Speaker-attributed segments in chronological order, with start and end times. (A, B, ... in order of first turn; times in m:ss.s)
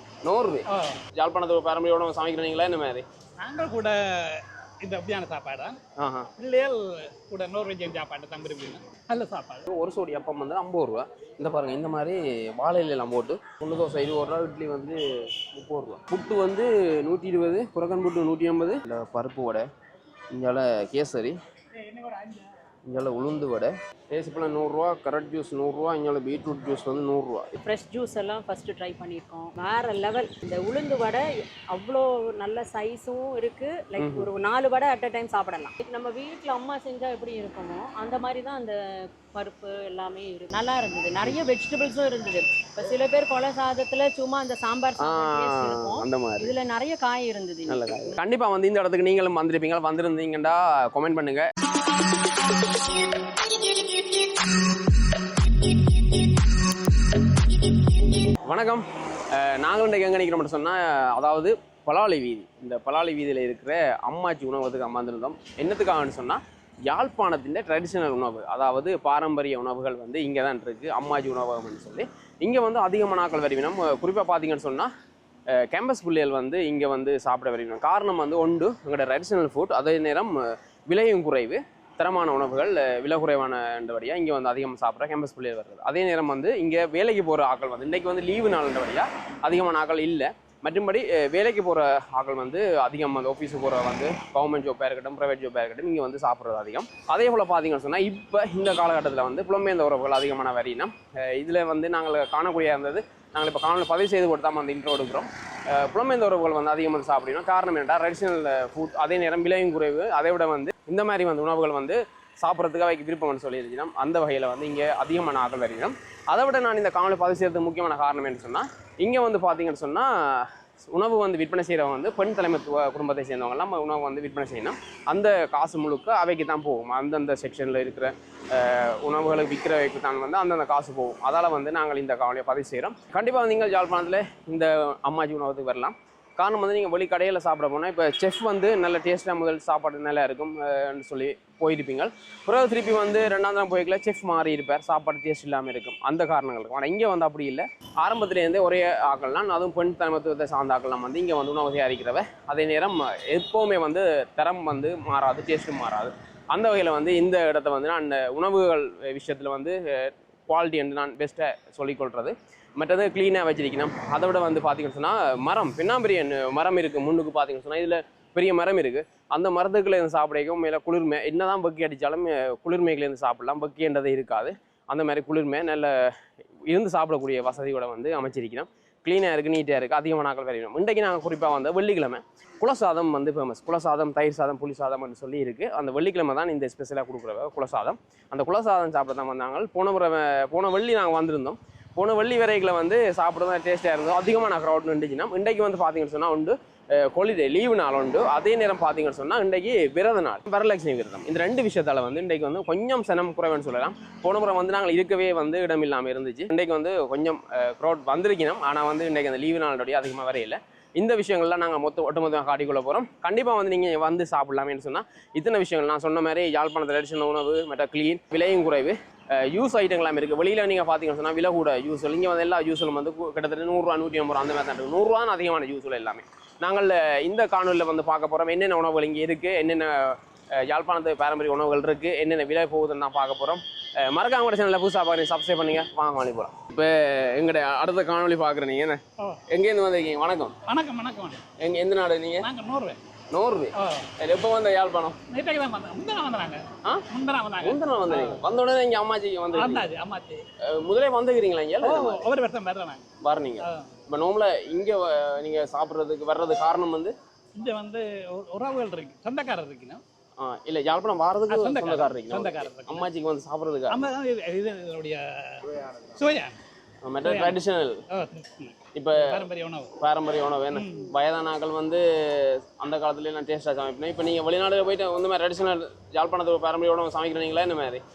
0:00.2-0:03.0 A
0:00.7-0:01.0 B
0:03.4-0:05.8 B
0:06.0-0:06.3 A
0:06.4-0:09.7 B
0:09.7-0:19.6 A
0:20.3-0:21.4 A
0:22.8-0:27.6 A
0:27.6-0:38.7 C
0:34.0-0:34.3 A
0:39.3-0:48.2 C
0:41.2-0:41.5 A
0:45.0-0:46.5 A
0:47.7-0:51.5 A
0:58.4-1:14.9 A
1:15.5-4:00.6 A
3:59.2-3:59.4 B
4:00.6-4:01.4 B
4:01.6-4:02.5 A
4:02.4-4:03.0 B
4:03.3-4:05.2 A
4:03.8-4:04.1 B
4:05.3-4:08.4 B
4:07.6-4:09.9 A
4:09.5-4:10.4 B
4:10.6-4:12.3 A
4:11.8-4:13.0 B
4:13.2-4:17.1 A
4:13.6-4:14.0 B
4:17.6-4:20.0 B
4:20.4-4:24.1 A
4:21.5-4:23.1 B
4:23.9-4:26.6 B
4:27.0-4:28.0 A
4:27.2-4:30.0 B
4:28.9-4:38.0 A
4:30.7-4:31.1 B